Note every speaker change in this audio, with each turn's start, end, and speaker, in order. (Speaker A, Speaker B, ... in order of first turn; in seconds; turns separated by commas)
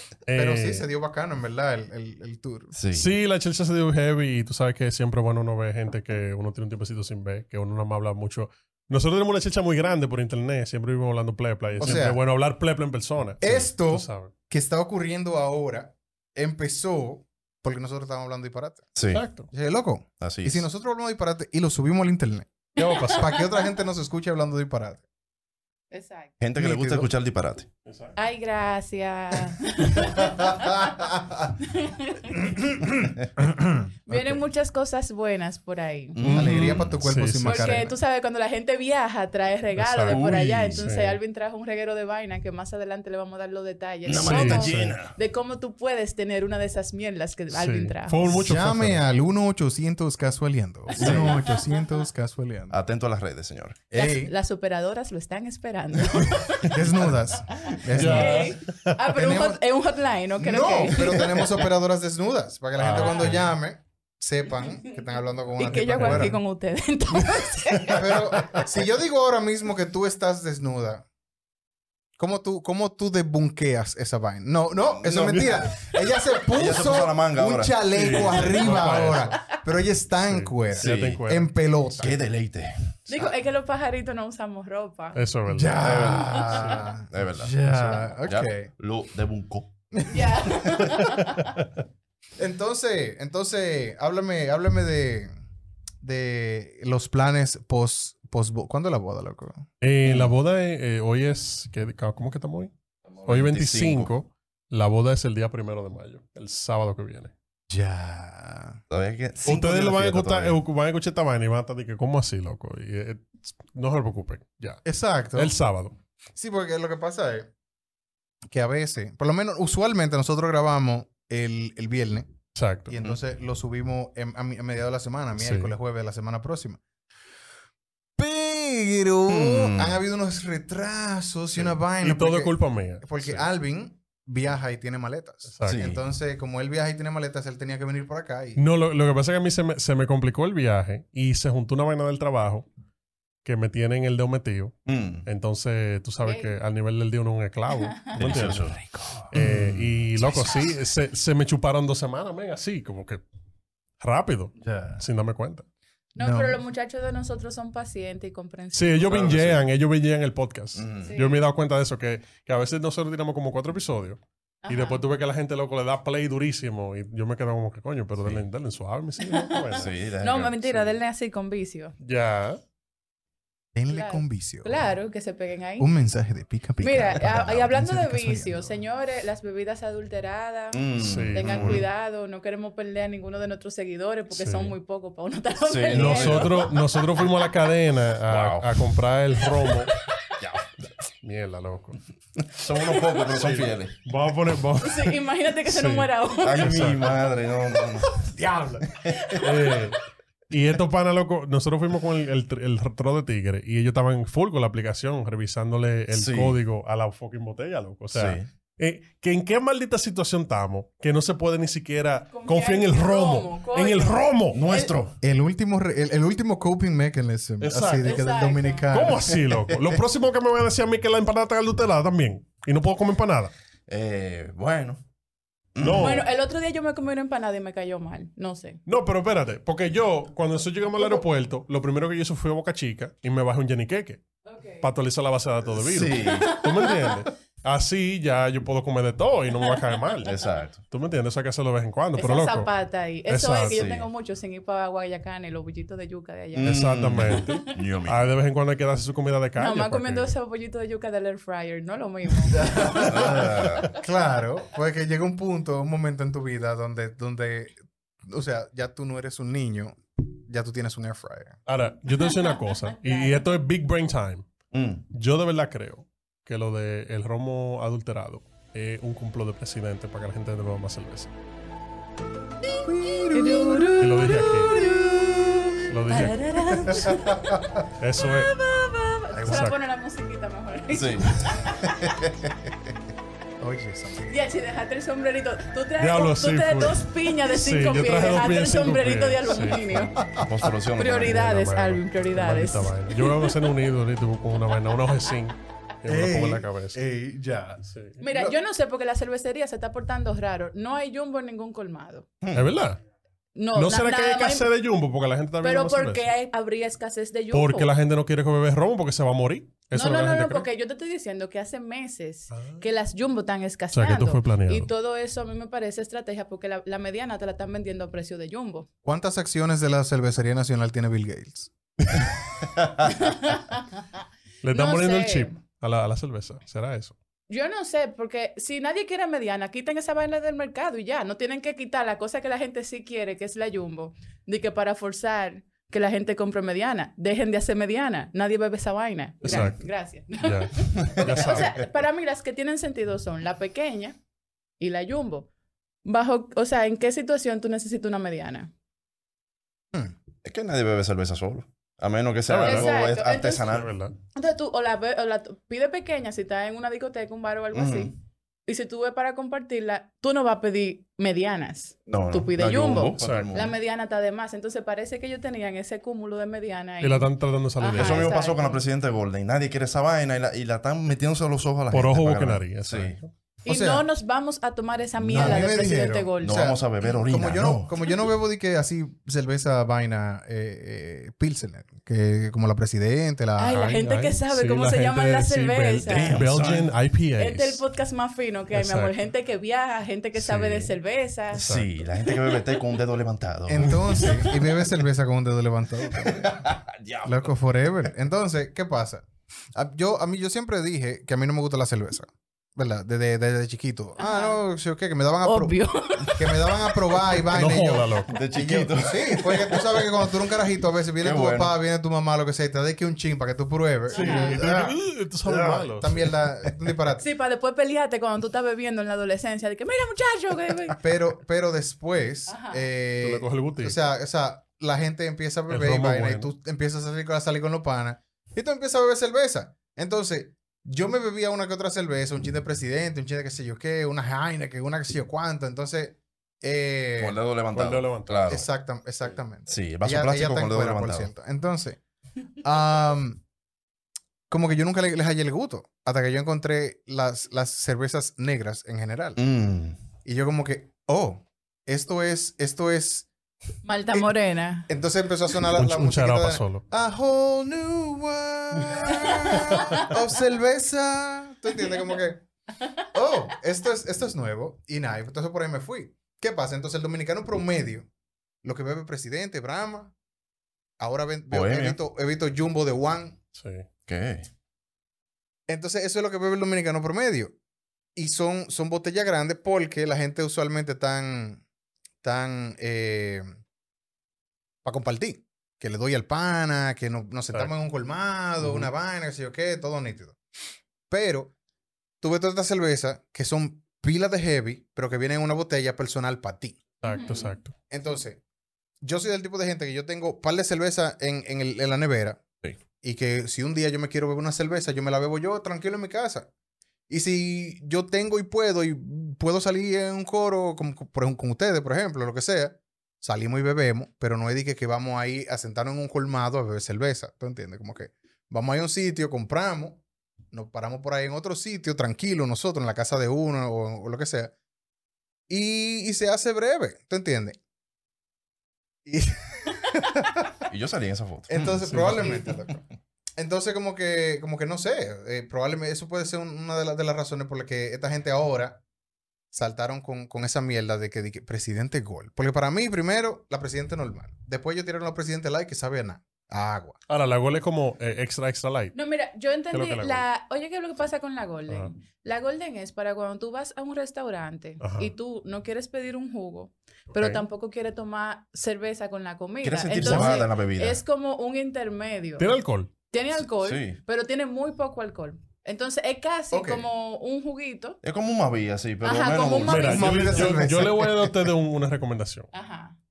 Speaker A: 0.2-0.9, Speaker B: 0.3-2.7, Speaker C: 2.7-3.1, Speaker A: 2.9-14.3, Speaker B: 11.8-12.2, Speaker B: 13.4-18.9, Speaker C: 18.9-19.2, Speaker A: 19.1-19.5, Speaker B: 19.5-22.5, Speaker C: 20.2-20.7, Speaker A: 22.8-23.4, Speaker D: 22.8-23.5, Speaker B: 23.1-25.0, Speaker D: 25.9-26.3, Speaker C: 26.4-27.7, Speaker B: 26.6-27.1, Speaker A: 27.8-28.1, Speaker D: 28.1-30.9, Speaker D: 31.6-32.4, Speaker B: 32.6-34.2, Speaker D: 34.1-36.2, Speaker C: 36.1-37.0, Speaker A: 36.2-37.8, Speaker B: 36.2-38.0, Speaker D: 37.4-48.3, Speaker A: 39.8-41.2, Speaker C: 40.1-40.9, Speaker C: 44.0-45.1, Speaker A: 44.1-45.0, Speaker A: 47.5-49.0, Speaker B: 48.3-52.8, Speaker D: 50.9-51.9, Speaker C: 51.0-51.4, Speaker C: 52.7-53.9, Speaker B: 53.9-54.3, Speaker D: 53.9-56.9, Speaker B: 56.6-59.6, Speaker D: 57.5-61.5, Speaker A: 57.9-58.9, Speaker B: 60.4-66.4, Speaker A: 62.8-63.4, Speaker D: 62.9-63.4, Speaker D: 65.6-68.0, Speaker A: 65.7-66.4, Speaker A: 67.7-68.6, Speaker B: 67.9-71.0, Speaker B: 72.2-82.2, Speaker C: 74.9-78.8, Speaker A: 77.9-79.4, Speaker A: 80.2-81.5, Speaker C: 80.7-81.2, Speaker C: 81.9-82.9, Speaker D: 83.1-85.2, Speaker A: 85.1-86.0, Speaker B: 85.5-88.7, Speaker C: 85.8-89.7, Speaker D: 90.1-91.5, Speaker A: 91.2-91.7, Speaker B: 92.4-95.3, Speaker B: 96.0-99.6, Speaker A: 99.8-102.7, Speaker C: 100.0-100.3, Speaker C: 103.1-104.1, Speaker A: 103.2-107.3, Speaker B: 107.7-108.8, Speaker C: 108.9-110.6, Speaker A: 109.4-114.8, Speaker B: 114.8-115.5, Speaker A: 115.3-115.9, Speaker B: 116.3-117.5, Speaker B: 118.5-122.3, Speaker A: 122.5-123.0, Speaker B: 122.9-126.8, Speaker A: 125.4-125.7, Speaker B: 128.2-138.6, Speaker C: 129.3-130.0, Speaker A: 132.0-133.5, Speaker A: 135.5-135.9, Speaker C: 135.6-136.0, Speaker A: 138.6-142.7, Speaker A: 143.4-153.2, Speaker C: 144.8-145.2, Speaker D: 146.2-146.5, Speaker D: 147.8-148.1, Speaker C: 148.2-149.9, Speaker B: 149.3-149.7, Speaker D: 150.3-150.6, Speaker A: 154.0-155.6, Speaker D: 156.2-159.1, Speaker B: 156.2-156.6, Speaker A: 158.7-169.9, Speaker C: 159.0-159.6, Speaker C: 160.8-161.1, Speaker D: 161.0-161.4, Speaker D: 164.6-165.0, Speaker D: 169.2-169.6, Speaker C: 169.7-170.6, Speaker D: 170.2-171.9, Speaker A: 172.0-172.6, Speaker B: 173.7-174.7, Speaker D: 173.9-175.9, Speaker B: 175.8-178.7, Speaker D: 176.8-186.7, Speaker C: 180.7-181.8, Speaker A: 181.0-181.8, Speaker A: 184.3-184.7, Speaker C: 185.7-186.7, Speaker A: 185.9-189.9, Speaker C: 188.3-188.8, Speaker C: 190.4-190.6, Speaker A: 191.2-192.0, Speaker C: 192.4-194.0, Speaker A: 193.3-197.2, Speaker D: 194.8-196.8, Speaker C: 196.4-198.3, Speaker C: 198.9-199.4, Speaker D: 199.1-199.7, Speaker A: 199.4-200.0, Speaker A: 200.5-214.6, Speaker C: 206.1-206.6, Speaker C: 208.1-208.5, Speaker D: 212.3-214.9, Speaker C: 214.5-215.2, Speaker B: 215.2-219.4, Speaker A: 217.6-218.2, Speaker D: 218.0-218.9, Speaker A: 218.9-223.5, Speaker C: 223.9-225.0, Speaker C: 225.8-226.3, Speaker A: 225.8-226.2, Speaker D: 225.9-228.8, Speaker A: 228.8-234.2, Speaker D: 231.0-231.2, Speaker D: 234.5-234.8, Speaker A: 234.8-242.7, Speaker C: 235.7-236.5, Speaker D: 236.2-237.2, Speaker C: 240.2-240.8, Speaker D: 242.2-247.6, Speaker A: 243.3-243.9, Speaker C: 243.7-244.1, Speaker C: 246.5-248.3, Speaker A: 246.6-250.3, Speaker D: 249.6-253.4, Speaker B: 252.5-261.6, Speaker C: 253.0-253.9, Speaker A: 261.7-264.5, Speaker D: 262.3-263.4, Speaker C: 264.7-265.0, Speaker A: 265.1-271.3, Speaker B: 272.8-273.9, Speaker D: 273.3-277.6, Speaker A: 274.0-274.8, Speaker A: 275.9-277.0, Speaker B: 276.9-277.8, Speaker A: 278.0-278.5, Speaker D: 278.2-282.1, Speaker B: 279.3-279.7, Speaker A: 279.5-279.8, Speaker C: 280.9-282.5, Speaker B: 283.6-284.3, Speaker D: 284.3-290.2, Speaker A: 286.0-289.9, Speaker C: 290.3-291.4, Speaker D: 290.9-293.5, Speaker A: 291.0-297.0, Speaker B: 296.1-298.5, Speaker A: 297.9-298.2, Speaker D: 298.2-302.2, Speaker C: 302.4-302.7, Speaker A: 302.5-303.0, Speaker D: 303.5-304.7, Speaker A: 303.7-306.3, Speaker D: 305.6-307.9, Speaker A: 307.5-310.6, Speaker D: 309.9-318.9, Speaker A: 312.5-312.8, Speaker A: 313.9-314.9, Speaker B: 319.0-321.7, Speaker D: 323.0-324.0, Speaker A: 324.6-327.1, Speaker D: 324.7-325.5, Speaker D: 327.5-344.2, Speaker A: 339.4-341.8, Speaker C: 341.1-341.6, Speaker D: 344.8-345.5, Speaker D: 346.0-348.7, Speaker C: 350.4-353.9, Speaker A: 352.5-352.9, Speaker D: 352.6-353.7, Speaker A: 353.7-354.1, Speaker D: 354.3-358.1, Speaker C: 357.7-358.1, Speaker D: 358.6-368.8, Speaker C: 362.1-363.7, Speaker A: 363.2-363.5, Speaker A: 367.0-368.3, Speaker C: 367.9-373.2, Speaker A: 371.9-373.3, Speaker D: 373.6-376.6, Speaker B: 373.7-374.1, Speaker B: 375.3-384.0, Speaker C: 375.3-375.8, Speaker C: 376.4-378.0, Speaker D: 383.6-386.4, Speaker A: 383.7-387.8, Speaker C: 386.1-386.9, Speaker D: 387.4-391.6, Speaker A: 388.7-389.1, Speaker A: 390.4-390.9, Speaker C: 391.5-394.6, Speaker A: 391.6-391.9, Speaker B: 393.7-396.7, Speaker C: 396.2-397.5, Speaker B: 397.2-417.2, Speaker D: 404.2-404.6, Speaker D: 405.4-407.0, Speaker A: 407.4-408.4, Speaker C: 408.3-410.1, Speaker C: 411.2-411.7, Speaker D: 414.1-414.6, Speaker A: 414.1-416.3, Speaker D: 417.2-421.0, Speaker B: 420.9-437.4, Speaker D: 422.5-422.9, Speaker A: 423.2-424.0, Speaker A: 425.7-426.5, Speaker C: 437.2-438.7, Speaker A: 437.7-438.5, Speaker B: 438.5-442.0, Speaker C: 439.7-441.3, Speaker B: 442.6-443.4, Speaker B: 444.5-449.4, Speaker C: 449.4-450.0, Speaker B: 450.2-453.3, Speaker D: 453.8-454.9, Speaker B: 454.9-462.4, Speaker A: 455.7-456.8, Speaker D: 459.2-460.1, Speaker B: 463.1-468.1, Speaker B: 468.6-470.1, Speaker B: 471.0-473.4, Speaker C: 471.5-472.0, Speaker A: 473.5-473.9, Speaker C: 474.1-474.5, Speaker B: 475.7-477.5, Speaker B: 478.1-481.6, Speaker B: 482.2-483.5, Speaker B: 484.8-490.4, Speaker A: 488.6-488.9, Speaker B: 491.1-491.5, Speaker B: 492.2-496.8, Speaker A: 497.0-497.7, Speaker D: 497.1-497.5, Speaker B: 497.9-498.4, Speaker B: 499.0-502.4, Speaker B: 503.0-506.5, Speaker B: 507.1-524.5, Speaker B: 525.5-527.6, Speaker B: 529.0-530.6, Speaker C: 530.7-532.5, Speaker B: 531.5-532.9, Speaker A: 531.8-532.4, Speaker B: 533.4-538.8, Speaker B: 539.5-547.0, Speaker A: 547.1-549.0, Speaker D: 548.9-562.5, Speaker A: 549.7-550.2, Speaker A: 554.8-555.1, Speaker A: 557.1-557.4, Speaker C: 559.6-561.0, Speaker A: 560.0-560.4, Speaker A: 562.4-562.9, Speaker D: 563.1-568.0, Speaker C: 563.3-564.0, Speaker B: 566.5-566.8, Speaker C: 568.0-570.7, Speaker D: 569.0-570.6, Speaker A: 569.6-572.5, Speaker B: 569.9-571.3, Speaker D: 572.5-573.0